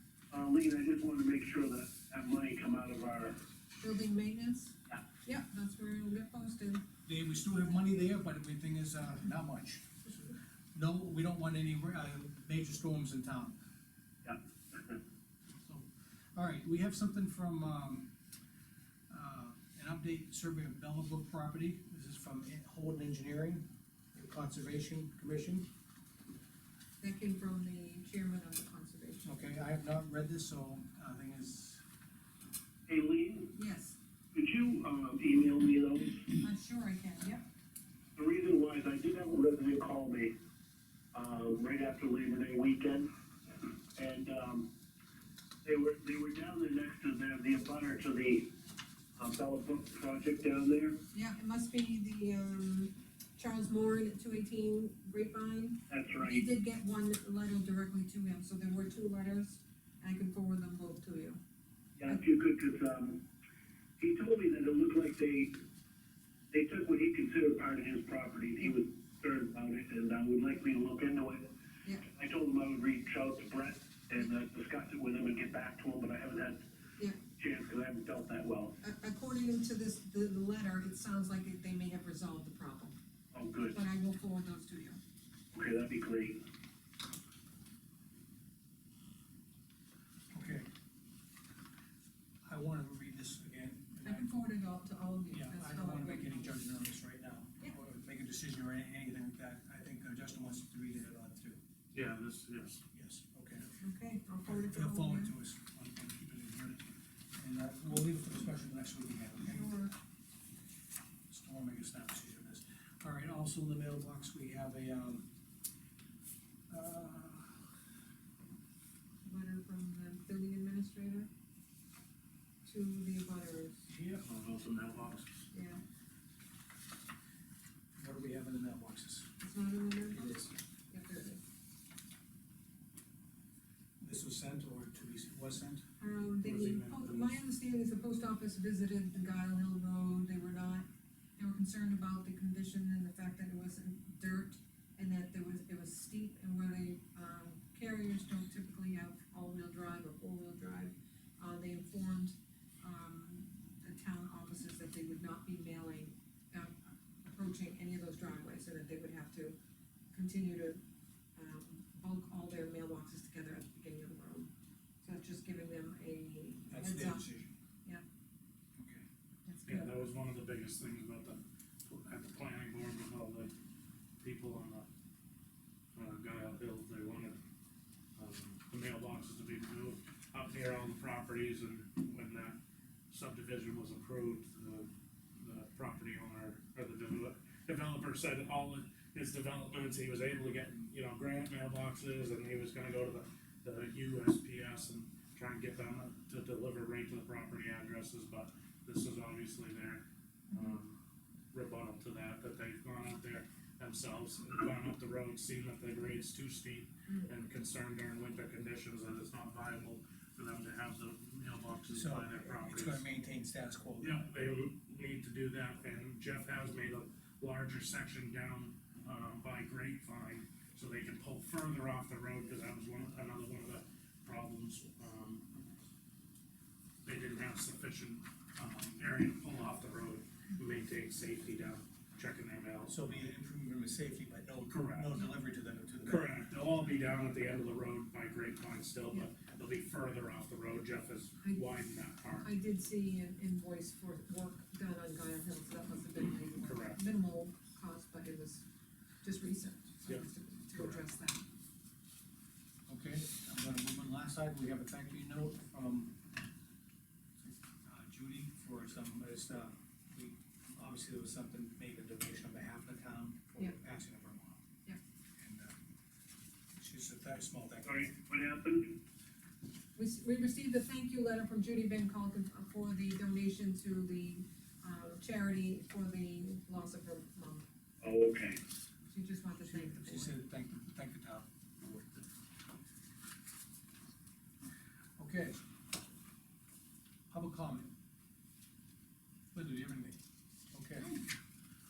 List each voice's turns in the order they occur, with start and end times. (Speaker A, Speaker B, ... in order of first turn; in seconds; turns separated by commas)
Speaker A: 0.3-3.4, Speaker B: 3.8-6.8, Speaker C: 7.0-13.6, Speaker A: 14.2-14.9, Speaker C: 15.6-18.1, Speaker C: 19.1-25.7, Speaker B: 27.0-29.3, Speaker C: 29.2-31.8, Speaker A: 32.9-33.5, Speaker B: 33.5-34.0, Speaker A: 34.3-36.4, Speaker B: 36.4-37.4, Speaker A: 38.1-40.3, Speaker A: 41.1-43.1, Speaker A: 43.6-44.7, Speaker A: 45.6-48.5, Speaker A: 49.1-51.0, Speaker B: 51.1-61.4, Speaker A: 55.9-56.4, Speaker A: 62.0-63.2, Speaker A: 64.0-65.6, Speaker A: 66.5-71.5, Speaker A: 72.0-76.6, Speaker A: 77.3-78.8, Speaker B: 78.8-82.9, Speaker A: 83.3-83.8, Speaker B: 83.7-85.0, Speaker A: 85.5-86.4, Speaker C: 90.3-90.7, Speaker C: 92.4-94.3, Speaker B: 94.0-96.6, Speaker C: 95.3-101.6, Speaker D: 101.9-102.8, Speaker C: 102.9-103.8, Speaker B: 103.8-105.3, Speaker C: 104.4-106.8, Speaker C: 107.3-109.8, Speaker B: 109.4-109.9, Speaker C: 111.3-115.3, Speaker C: 116.7-117.7, Speaker B: 119.2-121.3, Speaker B: 122.6-123.9, Speaker D: 123.9-125.4, Speaker B: 125.5-125.8, Speaker C: 128.0-129.3, Speaker B: 129.4-131.4, Speaker C: 130.1-130.5, Speaker C: 134.0-135.8, Speaker B: 136.0-159.6, Speaker D: 136.4-137.3, Speaker B: 160.1-160.8, Speaker B: 161.3-164.5, Speaker B: 165.0-167.3, Speaker C: 166.7-167.5, Speaker C: 168.8-169.0, Speaker B: 169.4-170.0, Speaker D: 169.7-173.5, Speaker D: 174.2-174.9, Speaker D: 175.9-177.4, Speaker D: 178.2-182.6, Speaker D: 183.1-201.0, Speaker B: 200.5-200.8, Speaker D: 201.5-213.1, Speaker C: 211.9-214.2, Speaker D: 214.0-225.5, Speaker D: 227.0-233.3, Speaker C: 232.9-236.3, Speaker D: 234.7-235.2, Speaker D: 236.1-242.5, Speaker B: 242.4-248.6, Speaker D: 246.4-247.0, Speaker B: 249.2-251.5, Speaker D: 250.1-251.0, Speaker C: 252.9-256.1, Speaker C: 257.4-264.6, Speaker C: 265.4-265.7, Speaker C: 266.8-268.1, Speaker A: 267.8-269.0, Speaker B: 269.9-277.7, Speaker A: 278.0-278.6, Speaker B: 279.1-280.4, Speaker C: 279.6-282.2, Speaker C: 285.2-285.6, Speaker C: 287.3-287.9, Speaker C: 289.5-290.2, Speaker C: 290.7-291.2